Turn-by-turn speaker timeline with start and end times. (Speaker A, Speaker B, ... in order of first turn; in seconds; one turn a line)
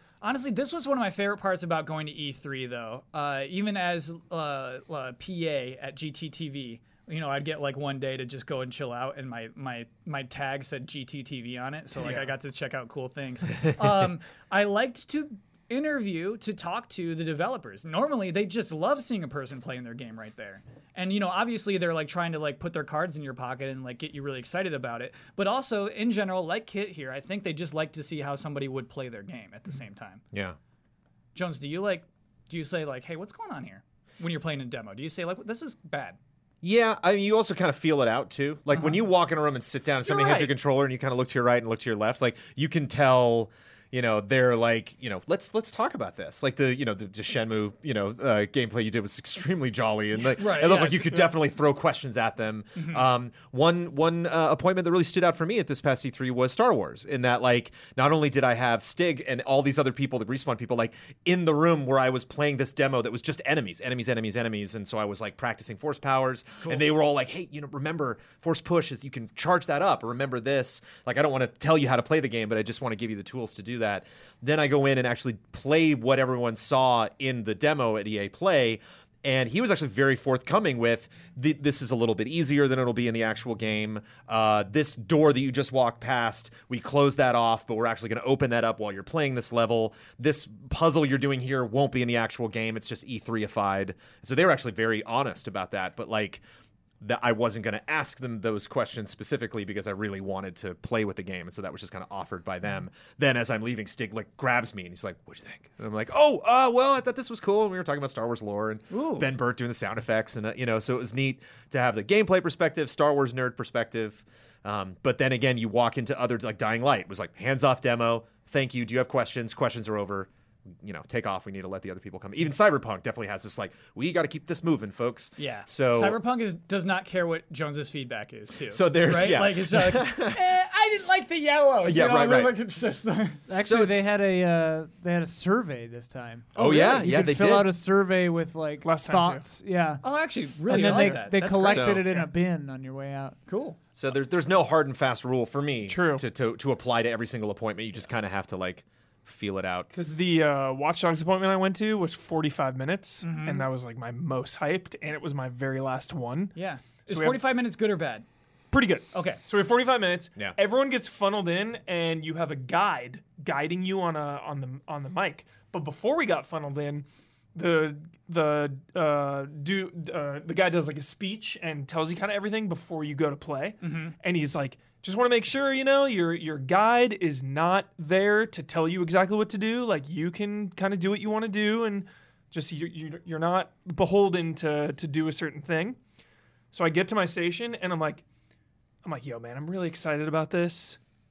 Speaker A: 0.2-30.2
Speaker B: 30.3-30.6
Speaker A: 31.3-36.2
Speaker B: 36.6-96.4
Speaker A: 40.1-40.4
Speaker A: 50.2-51.3
Speaker A: 52.8-53.0
Speaker B: 97.0-120.3
Speaker A: 108.9-109.3
Speaker B: 120.8-126.2
Speaker A: 125.4-133.4
Speaker B: 128.7-130.4
Speaker B: 131.8-132.5
Speaker C: 133.5-140.0
Speaker B: 133.6-134.0
Speaker B: 136.5-137.7
Speaker D: 138.8-139.4
Speaker A: 140.0-142.3
Speaker C: 140.7-143.4
Speaker D: 140.7-141.3
Speaker B: 141.6-142.1
Speaker A: 143.5-143.8
Speaker B: 143.9-149.9
Speaker D: 145.8-146.2
Speaker D: 149.9-156.5
Speaker A: 153.2-153.7
Speaker A: 156.5-158.2
Speaker D: 157.1-157.4
Speaker D: 158.7-186.0
Speaker A: 159.1-159.4
Speaker A: 173.8-174.1
Speaker D: 186.7-188.2
Speaker D: 189.0-191.0